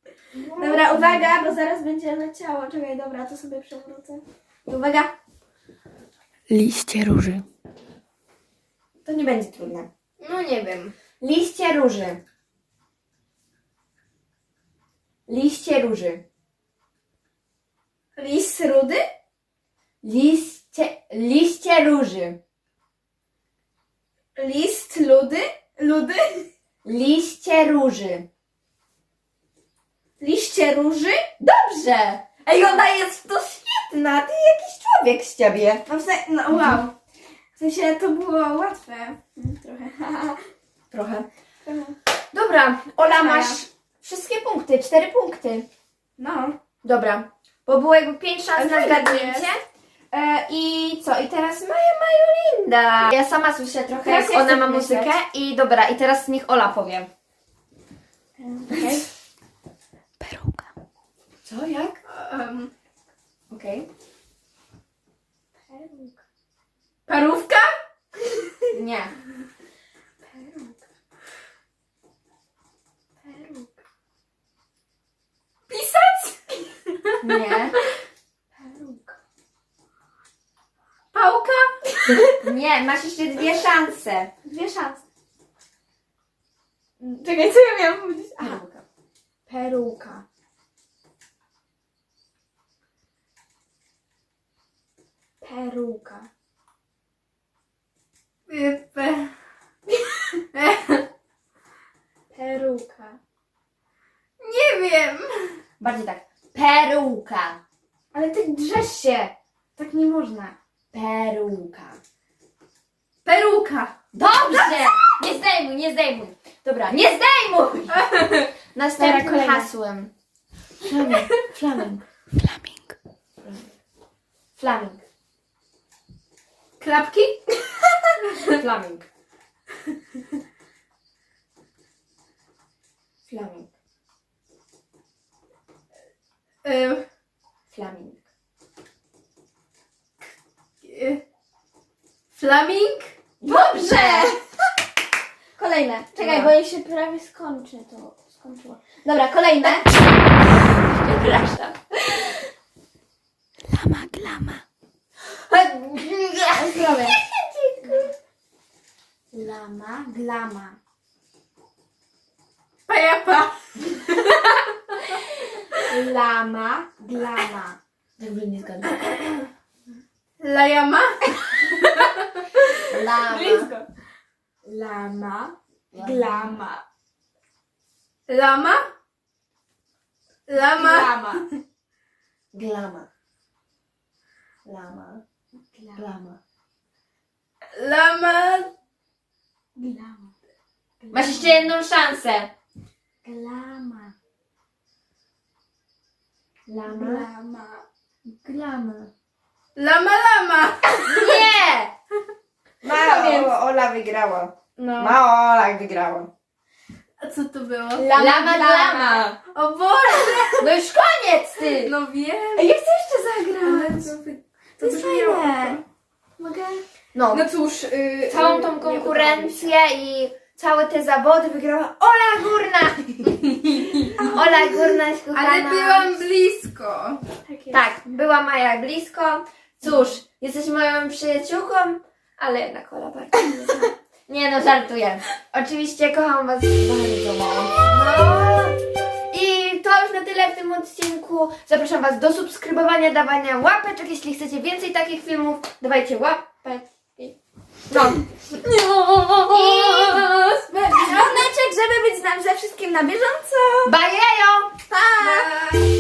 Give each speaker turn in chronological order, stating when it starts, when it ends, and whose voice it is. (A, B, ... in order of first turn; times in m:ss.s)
0:00.4-0:01.3 A
0:00.6-0:05.1 B
0:06.5-0:07.4 C
0:09.0-0:09.9 A
0:10.2-0:11.0 D
0:11.2-0:12.2 A
0:15.3-0:16.2 A
0:18.2-0:19.1 B
0:20.0-0:22.4 A
0:24.4-0:26.5 B
0:26.8-0:28.3 A
0:30.2-0:31.2 B
0:31.4-0:35.8 A
0:35.9-0:36.9 B
0:36.6-0:36.8 A
0:37.6-0:40.4 B
0:40.9-0:41.3 A
0:41.7-0:42.0 B
0:42.3-0:45.7 A
0:43.0-0:43.6 B
0:46.2-0:46.6 B
0:46.8-0:57.1 A
0:48.6-0:49.5 B
0:54.0-0:55.1 B
0:58.4-0:59.1 B
1:00.2-1:00.7 C
1:01.5-1:02.0 A
1:02.1-1:02.7 D
1:03.5-1:03.9 A
1:05.7-1:06.2 B
1:07.1-1:07.7 D
1:08.7-1:09.1 A
1:10.2-1:10.8 B
1:13.2-1:13.8 B
1:15.7-1:17.3 D
1:17.2-1:17.8 A
1:18.6-1:19.2 B
1:21.1-1:22.3 D
1:22.4-1:24.3 A
1:24.4-1:25.0 B
1:27.0-1:28.6 B
1:28.4-1:28.8 A
1:29.5-1:30.2 B
1:35.4-1:36.3 B
1:38.5-1:39.3 D
1:40.5-1:41.0 D
1:42.3-1:43.2 B
1:44.4-1:45.6 D
1:45.8-1:47.6 A
1:48.1-1:50.6 B
1:50.9-1:52.0 A
1:53.2-1:53.9 D
1:54.1-1:58.1 A
1:54.5-1:55.0 B
1:57.9-1:58.5 D
1:58.8-2:00.1 A
1:59.0-1:59.7 B
2:00.8-2:02.0 A
2:02.4-2:03.0 C
2:03.4-2:03.7 A
2:04.6-2:05.0 A
2:06.8-2:08.5 D
2:08.5-2:09.1 A
2:13.3-2:13.7 A
2:16.6-2:17.0 D
2:17.7-2:18.2 A
2:20.8-2:21.2 D
2:22.3-2:23.1 D
2:23.4-2:24.4 A
2:23.8-2:24.5 B
2:25.6-2:28.8 B
2:26.2-2:26.5 A
2:29.0-2:29.9 A
2:29.5-2:29.9 B
2:30.5-2:32.5 A
2:33.7-2:34.6 C
2:35.3-2:38.1 A
2:36.5-2:37.2 B
2:37.8-2:38.1 B
2:39.3-2:40.8 B
2:42.9-2:45.2 D
2:45.9-2:47.8 B
2:48.2-2:49.1 A
2:50.4-2:52.7 D
2:52.9-2:53.7 A
2:53.3-2:53.9 B
2:54.6-2:56.8 B
2:55.9-2:56.6 A
2:58.3-2:58.8 D
3:00.5-3:01.4 D
3:00.7-3:01.4 B
3:02.5-3:03.1 A
3:04.6-3:05.2 A
3:05.7-3:06.0 B
3:06.0-3:06.4 A
3:07.7-3:08.7 D
3:09.8-3:10.4 B
3:11.0-3:11.7 B
3:11.1-3:12.5 A
3:13.2-3:14.1 B
3:16.7-3:17.3 A
3:16.9-3:17.8 B
3:18.3-3:19.1 A
3:19.8-3:21.4 D
3:21.1-3:21.9 A
3:22.8-3:26.3 A
3:23.0-3:23.4 D
3:24.8-3:25.2 B
3:27.2-3:28.2 D
3:28.0-3:29.4 A
3:28.1-3:29.2 B
3:29.4-3:30.7 D
3:30.6-3:31.9 A
3:31.8-3:32.7 D
3:32.6-3:34.0 A
3:33.6-3:34.2 B
3:34.8-3:35.8 B
3:34.8-3:35.8 D
3:36.4-3:36.8 B
3:37.1-3:37.5 A
3:37.3-3:39.7 D
3:38.3-3:46.2 A
3:44.2-3:44.4 B
3:45.3-3:47.2 D
3:47.5-3:47.8 B
3:47.7-3:58.8 A
3:59.3-4:07.4 A
4:07.9-4:08.2 A
4:08.6-4:11.5 D
4:09.5-4:10.3 A
4:10.7-4:13.9 B
4:13.8-4:15.5 A
4:14.9-4:15.6 B
4:15.2-4:15.5 D